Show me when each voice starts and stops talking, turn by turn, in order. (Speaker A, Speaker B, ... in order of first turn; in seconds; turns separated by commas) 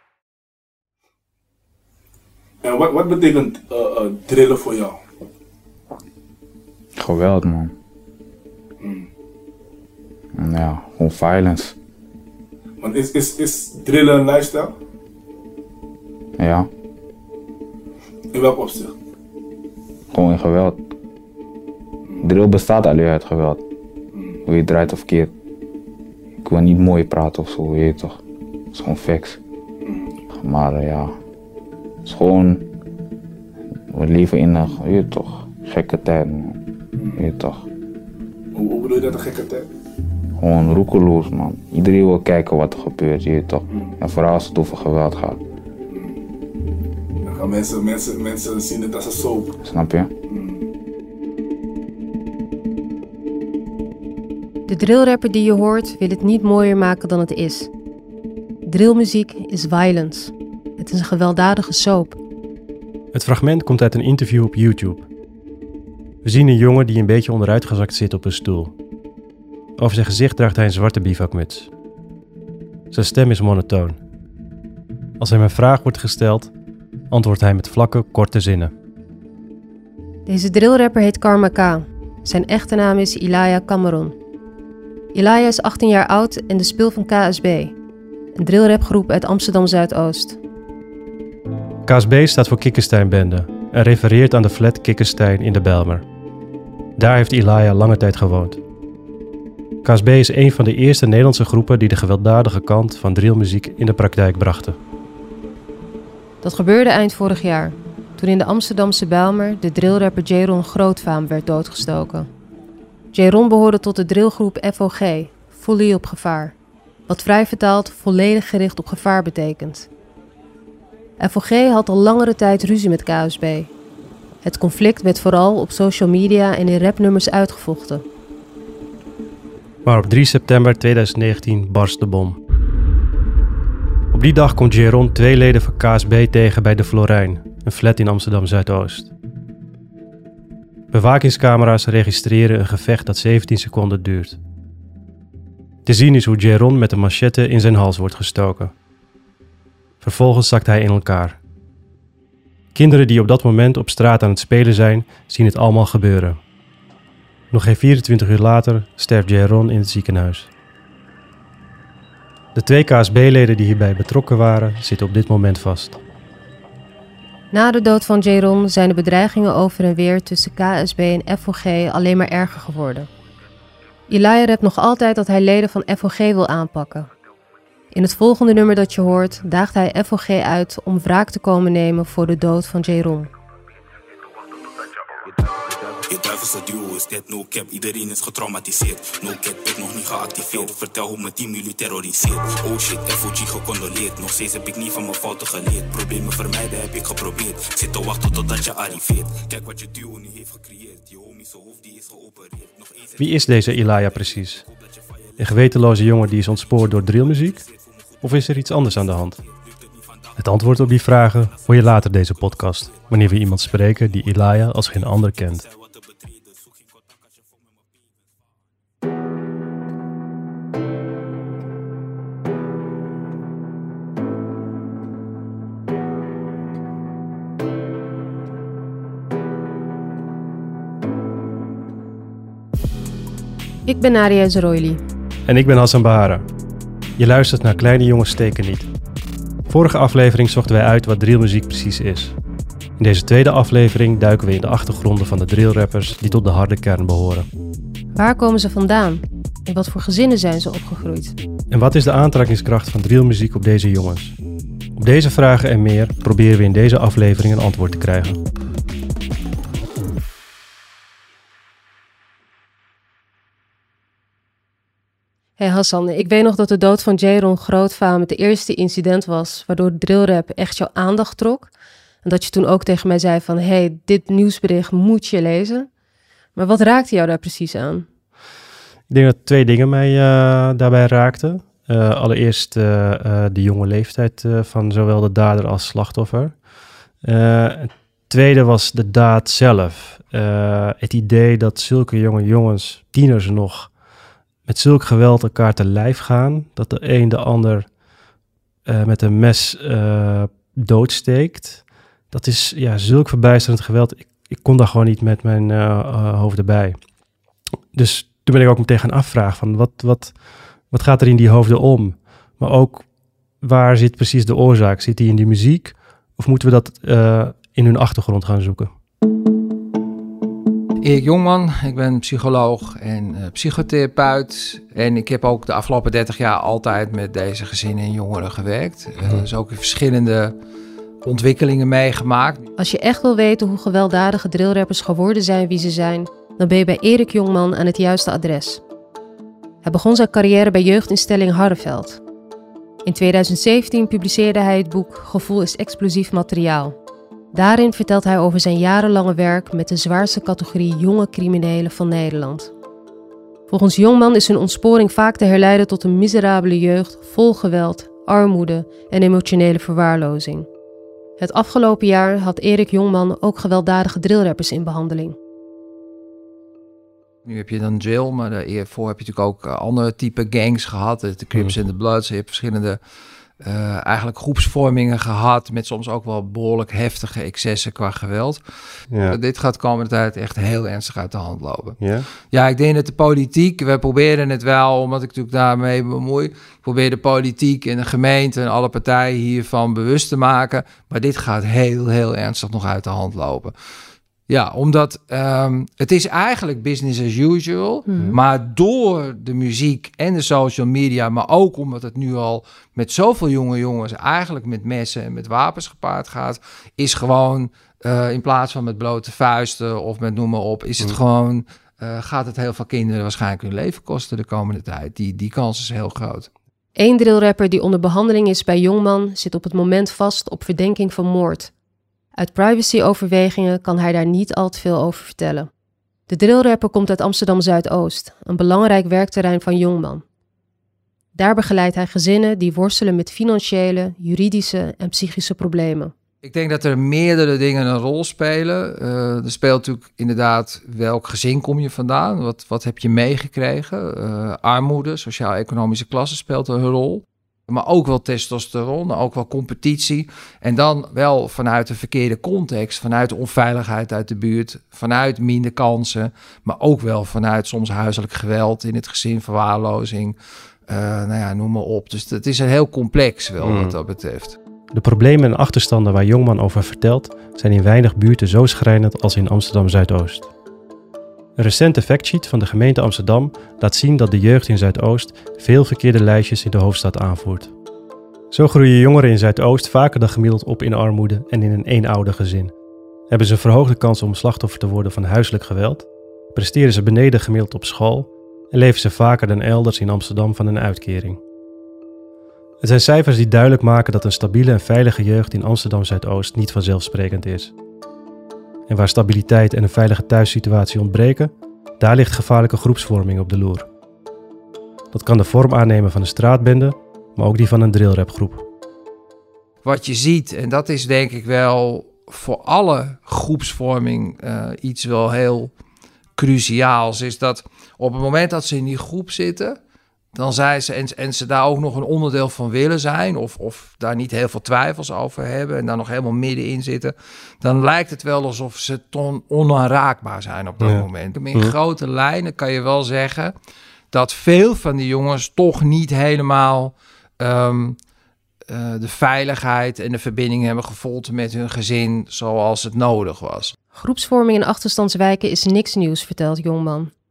Speaker A: 2.6-5.0, Speaker B: 7.0-7.7, Speaker A: 8.8-9.1, Speaker B: 10.3-11.8, Speaker A: 12.8-14.7, Speaker B: 16.4-16.7, Speaker A: 18.3-18.9, Speaker B: 20.1-20.8, Speaker A: 22.1-22.3, Speaker B: 22.2-23.6, Speaker A: 24.1-24.4, Speaker B: 24.4-25.3, Speaker B: 26.4-28.2, Speaker B: 28.7-29.4, Speaker A: 29.8-30.1, Speaker B: 30.3-31.1, Speaker B: 32.0-32.6, Speaker B: 33.9-36.6, Speaker B: 37.1-37.6, Speaker A: 38.5-39.6, Speaker B: 40.4-45.4, Speaker A: 43.7-44.0, Speaker A: 45.9-46.2, Speaker A: 47.2-49.6, Speaker B: 49.6-50.1, Speaker A: 50.3-50.6, Speaker C: 54.7-57.7, Speaker C: 58.6-62.2, Speaker D: 63.1-65.0, Speaker D: 66.2-68.7, Speaker D: 69.8-71.7, Speaker D: 72.9-74.0, Speaker D: 75.2-76.5, Speaker D: 77.1-78.7, Speaker C: 80.2-84.2, Speaker C: 85.1-87.8, Speaker C: 88.3-90.4, Speaker D: 91.8-96.0, Speaker D: 97.0-98.6, Speaker D: 99.8-104.8, Speaker C: 106.4-112.3, Speaker C: 113.1-116.5, Speaker C: 117.1-119.9, Speaker C: 121.2-123.7, Speaker C: 124.4-128.0, Speaker D: 129.8-132.4, Speaker D: 134.1-139.1, Speaker D: 140.9-144.4, Speaker D: 145.8-148.7, Speaker D: 150.0-151.4, Speaker D: 152.7-156.4, Speaker D: 157.5-160.5, Speaker D: 162.5-166.0, Speaker C: 167.5-173.1, Speaker C: 174.1-177.1, Speaker C: 177.9-183.3, Speaker E: 186.1-203.1, Speaker D: 203.2-204.6, Speaker D: 205.4-207.6, Speaker D: 208.2-209.4, Speaker D: 210.3-215.7, Speaker E: 215.7-216.4, Speaker C: 233.8-235.0, Speaker D: 235.4-236.4, Speaker D: 237.2-238.9, Speaker D: 239.7-242.3, Speaker D: 243.0-247.5, Speaker C: 248.2-251.3, Speaker D: 251.7-254.3, Speaker D: 254.9-258.4, Speaker C: 265.6-271.7, Speaker C: 272.2-275.9, Speaker C: 276.5-278.1, Speaker D: 279.1-286.6, Speaker D: 287.2-293.9, Speaker D: 294.6-297.9, Speaker D: 298.9-307.0, Speaker D: 307.9-310.4, Speaker D: 310.9-313.1, Speaker D: 313.6-318.9, Speaker F: 321.0-330.5, Speaker F: 331.2-332.6, Speaker C: 332.8-338.8, Speaker C: 339.8-342.2, Speaker C: 343.0-347.0, Speaker C: 347.5-352.7, Speaker C: 353.7-360.7, Speaker C: 361.4-365.4, Speaker F: 367.4-373.0, Speaker F: 373.6-378.6, Speaker D: 379.1-379.4, Speaker F: 379.1-393.7, Speaker D: 382.0-382.3, Speaker F: 394.5-416.5, Speaker C: 416.9-421.7, Speaker C: 422.4-425.7, Speaker C: 426.3-430.2, Speaker C: 431.3-436.1, Speaker F: 436.4-460.4, Speaker F: 460.9-464.6, Speaker D: 463.6-463.9, Speaker D: 464.9-470.5, Speaker D: 471.6-477.7, Speaker D: 478.5-482.7, Speaker D: 483.3-491.4, Speaker D: 492.8-497.7, Speaker D: 498.9-503.9, Speaker D: 505.1-508.6, Speaker F: 509.8-515.7, Speaker F: 516.4-519.8, Speaker F: 520.3-533.5, Speaker D: 530.8-531.7, Speaker F: 534.1-538.0, Speaker F: 538.7-543.7, Speaker C: 543.9-547.1